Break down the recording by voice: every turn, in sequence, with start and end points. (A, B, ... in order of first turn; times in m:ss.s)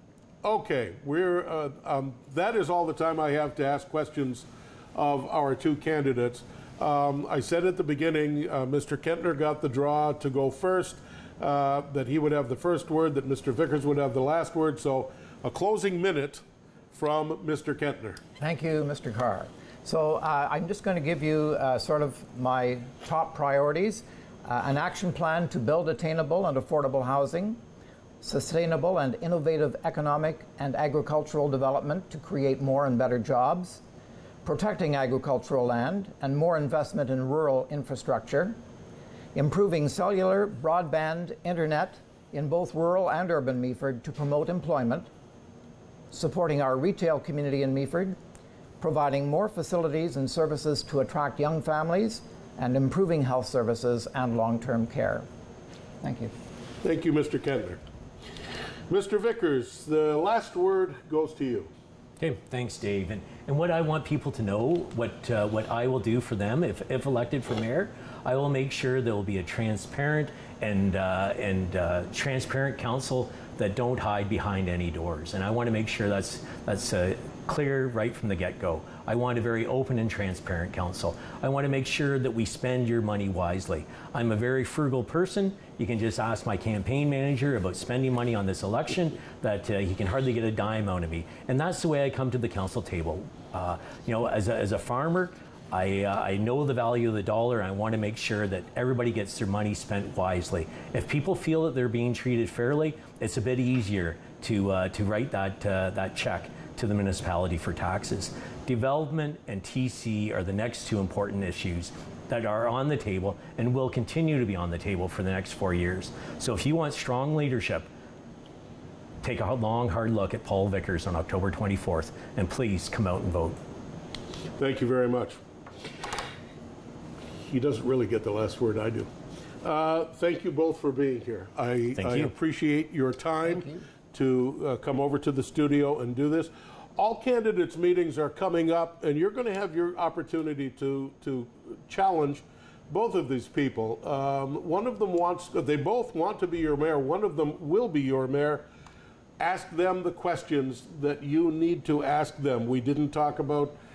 0:00.4-0:18.2 A
0:18.4-0:27.6 B
0:28.2-0:33.8 B
0:34.4-0:38.6 B
0:39.3-0:45.1 B
0:46.1-0:48.2 B
0:48.8-0:55.3 B
0:56.0-0:56.3 B
0:56.8-0:57.8 A
0:58.9-1:01.7 A
1:02.2-1:57.9 C
1:59.2-2:03.6 C
2:04.6-2:05.4 A
2:07.4-2:09.1 A
2:09.6-2:28.6 A
2:12.0-2:12.3 C
2:29.4-2:33.8 A